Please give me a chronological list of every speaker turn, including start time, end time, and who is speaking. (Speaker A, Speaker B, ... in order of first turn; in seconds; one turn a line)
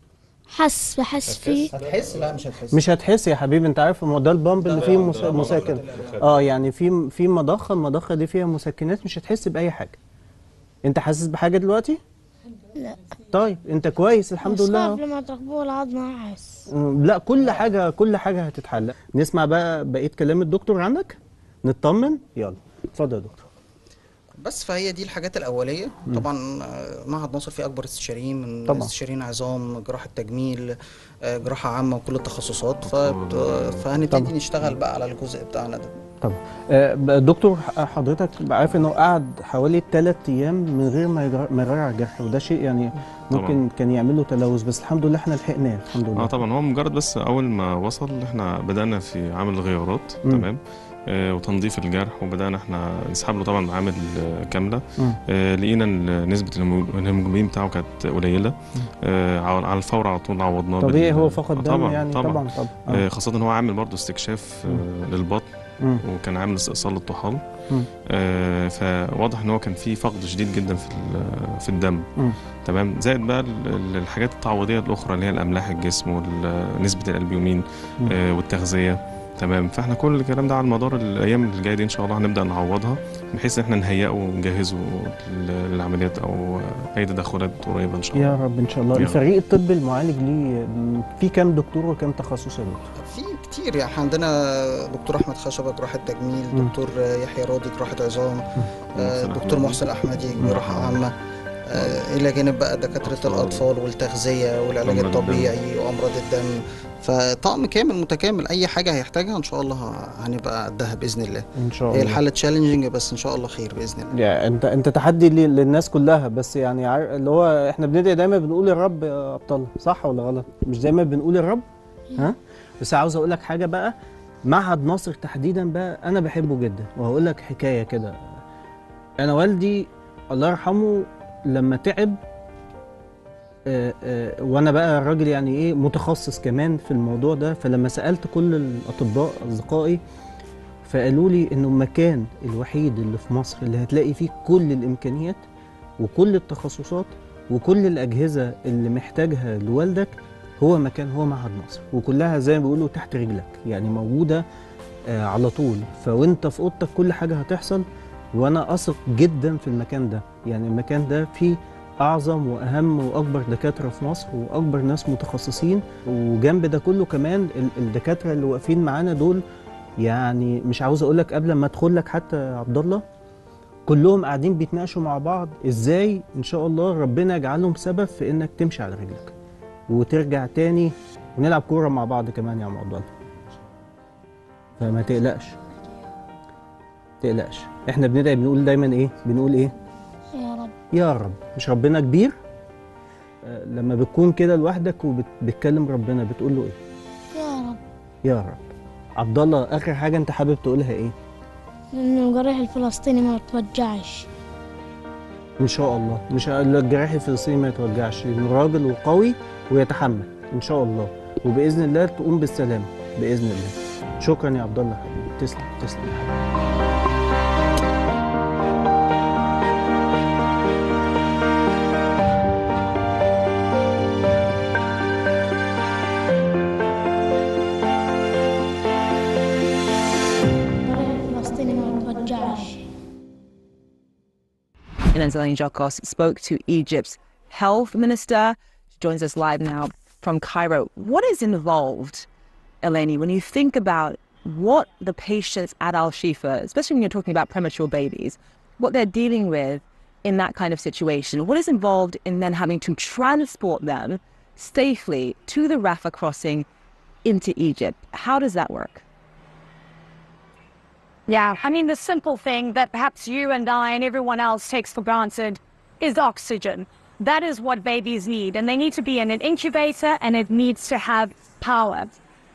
Speaker A: 0.5-1.7
Speaker B: 1.3-2.9
Speaker C: 2.7-10.0
Speaker B: 4.6-6.4
Speaker C: 10.8-12.0
Speaker A: 12.8-13.1
Speaker C: 13.3-15.0
Speaker A: 14.4-16.6
Speaker C: 16.7-23.4
Speaker B: 24.4-30.7
Speaker B: 31.2-35.9
Speaker D: 32.8-33.8
Speaker C: 36.2-46.4
Speaker D: 43.3-43.6
Speaker D: 46.1-50.6
Speaker D: 51.1-54.8
Speaker D: 55.3-65.4
Speaker C: 60.8-63.0
Speaker D: 66.0-67.4
Speaker D: 68.1-72.0
Speaker D: 72.7-88.4
Speaker C: 88.1-92.9
Speaker D: 88.9-89.2
Speaker B: 93.0-101.1
Speaker D: 99.0-99.8
Speaker D: 100.4-101.0
Speaker B: 101.7-106.5
Speaker D: 101.7-102.0
Speaker D: 103.0-103.7
Speaker D: 104.8-105.5
Speaker B: 107.0-114.1
Speaker C: 111.6-112.2
Speaker C: 114.1-121.7
Speaker C: 122.2-123.9
Speaker C: 124.5-128.2
Speaker C: 129.2-132.2
Speaker C: 133.7-140.0
Speaker C: 140.8-145.4
Speaker C: 146.0-154.4
Speaker C: 155.1-157.8
Speaker C: 158.3-169.4
Speaker C: 170.0-173.0
Speaker C: 173.9-179.3
Speaker C: 179.9-183.1
Speaker C: 184.8-185.5
Speaker C: 187.2-189.7
Speaker A: 190.4-190.7
Speaker C: 190.9-192.4
Speaker C: 193.4-196.8
Speaker A: 197.3-197.8
Speaker C: 198.2-198.7
Speaker C: 199.2-201.1
Speaker A: 201.9-204.3
Speaker C: 205.6-216.3
Speaker A: 230.8-232.8
Speaker E: 235.1-242.3
Speaker E: 242.8-256.6
Speaker E: 257.2-259.0
Speaker F: 261.3-272.1